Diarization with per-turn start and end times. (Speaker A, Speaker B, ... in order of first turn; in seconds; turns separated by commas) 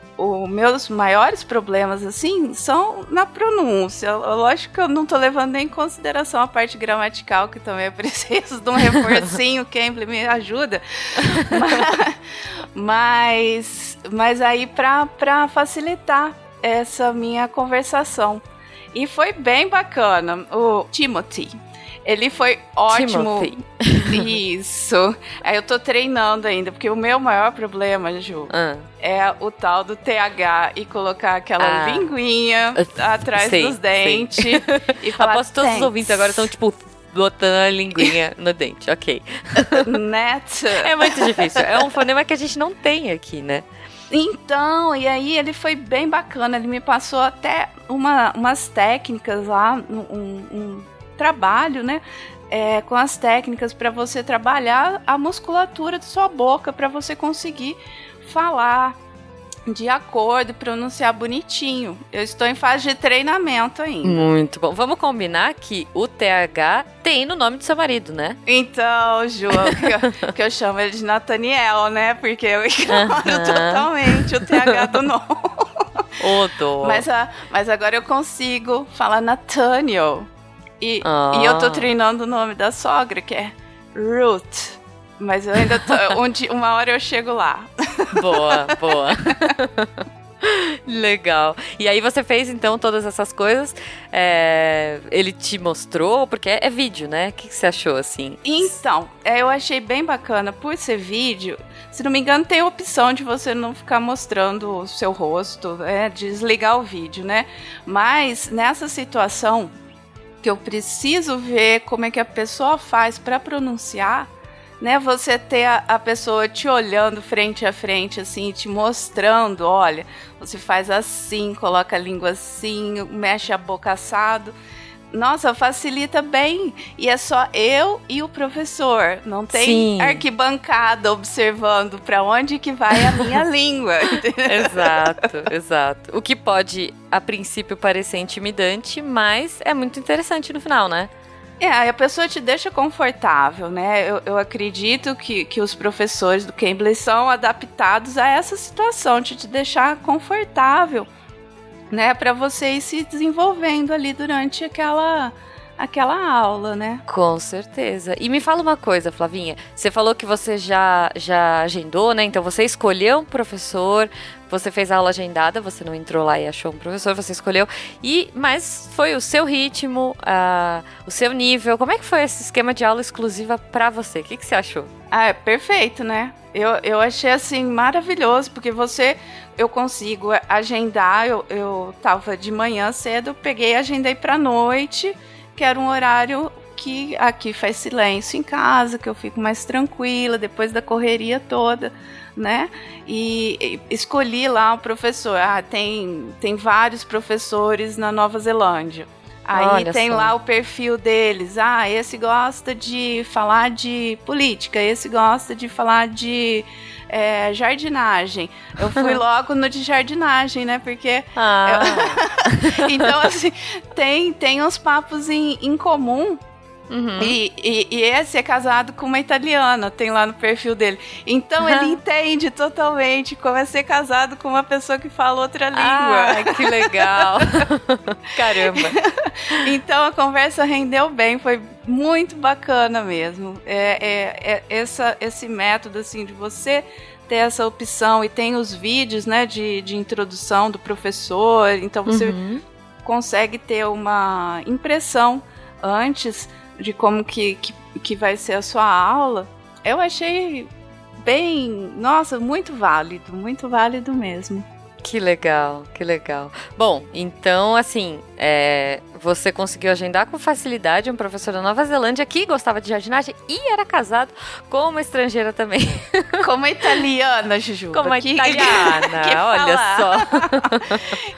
Speaker A: 0.2-12.2, Speaker A: 12.8-18.4, Speaker A: 18.9-36.5, Speaker B: 22.9-24.2, Speaker B: 28.5-28.9, Speaker B: 31.6-32.1, Speaker B: 32.8-39.8, Speaker A: 39.8-41.8, Speaker B: 40.8-43.7, Speaker A: 44.1-59.0, Speaker A: 59.7-64.2, Speaker B: 64.0-68.4, Speaker A: 68.5-75.8, Speaker B: 72.9-75.0, Speaker B: 76.2-77.0, Speaker A: 76.8-89.5, Speaker B: 81.0-81.9, Speaker B: 85.8-86.1, Speaker B: 88.1-89.9, Speaker B: 90.4-98.8, Speaker A: 98.4-109.8, Speaker A: 110.4-124.5, Speaker A: 125.1-135.3, Speaker B: 129.5-130.2, Speaker B: 134.5-141.1, Speaker A: 141.6-151.1, Speaker A: 151.9-157.0, Speaker B: 157.1-174.9, Speaker A: 175.1-216.4, Speaker B: 199.5-200.3, Speaker B: 211.4-213.1, Speaker B: 216.9-217.4, Speaker A: 217.2-227.4, Speaker B: 221.6-222.0, Speaker B: 225.7-228.9, Speaker A: 228.7-242.4, Speaker B: 242.1-242.6, Speaker A: 243.0-250.7, Speaker A: 251.2-254.7, Speaker B: 255.0-266.4, Speaker A: 266.4-270.8, Speaker B: 267.9-271.0